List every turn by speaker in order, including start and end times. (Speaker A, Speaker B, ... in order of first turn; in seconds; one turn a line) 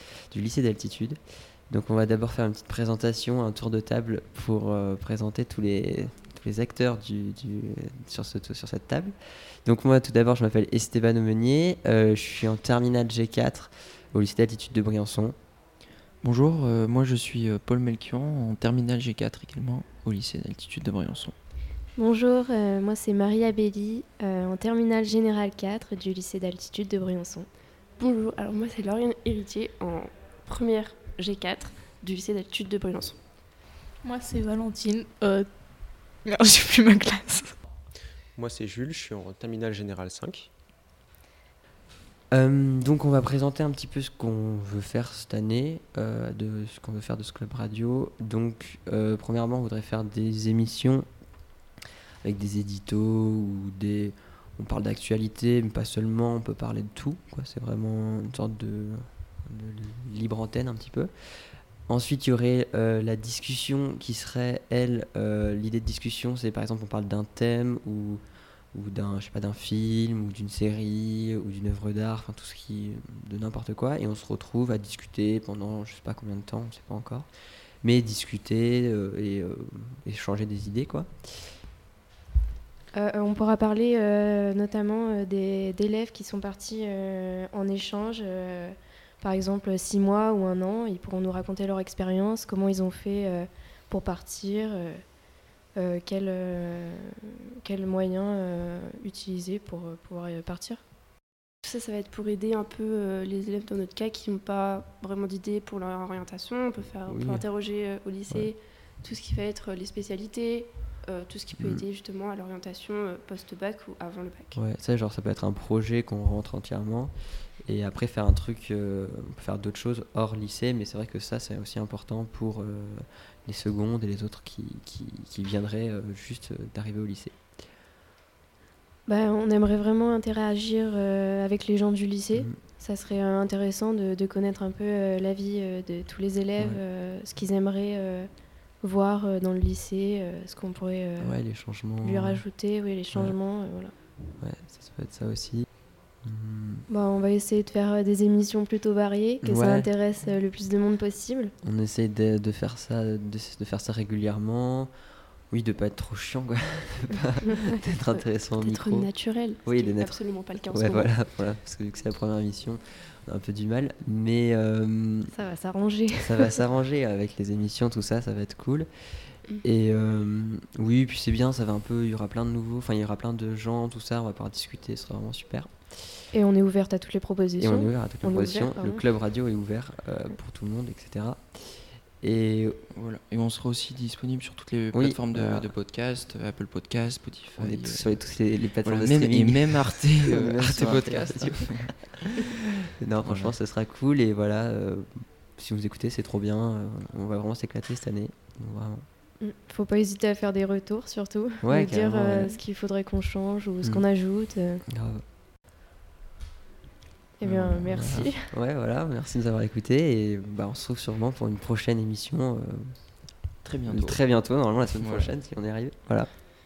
Speaker A: 0.3-1.2
Speaker A: 1.7-15.3
Speaker B: 16.2-21.4
Speaker C: 22.0-27.5
Speaker D: 27.9-33.2
Speaker E: 34.0-37.5
Speaker F: 38.3-40.5
Speaker A: 42.3-51.1
Speaker A: 52.2-61.1
Speaker A: 61.9-68.2
Speaker A: 68.7-77.3
Speaker A: 77.8-81.5
Speaker C: 82.9-95.1
Speaker C: 95.7-100.8
Speaker D: 101.6-114.6
Speaker A: 107.1-107.5
Speaker A: 111.6-111.8
Speaker A: 114.5-127.4
Speaker C: 129.1-141.3
Speaker A: 136.6-136.8
Speaker A: 141.2-143.4
Speaker C: 142.0-143.9
Speaker A: 144.4-146.9
Speaker C: 146.9-151.5
Speaker A: 149.4-149.9
Speaker A: 151.6-154.9
Speaker A: 155.5-159.1
Speaker D: 158.6-161.2
Speaker A: 159.6-165.3
Speaker C: 165.3-166.5
Speaker A: 166.2-176.2
Speaker C: 176.3-179.0
Speaker A: 177.6-182.8
Speaker B: 182.9-188.2
Speaker A: 184.9-185.7
Speaker A: 187.6-191.9
Speaker B: 188.8-192.3
Speaker A: 193.0-199.1
Speaker B: 193.2-193.5
Speaker C: 199.4-204.8
Speaker A: 201.6-202.6
Speaker A: 204.9-205.2
Speaker A: 207.4-213.3
Speaker C: 207.5-208.5
Speaker B: 208.0-208.3
Speaker B: 213.6-215.3
Speaker A: 213.9-216.3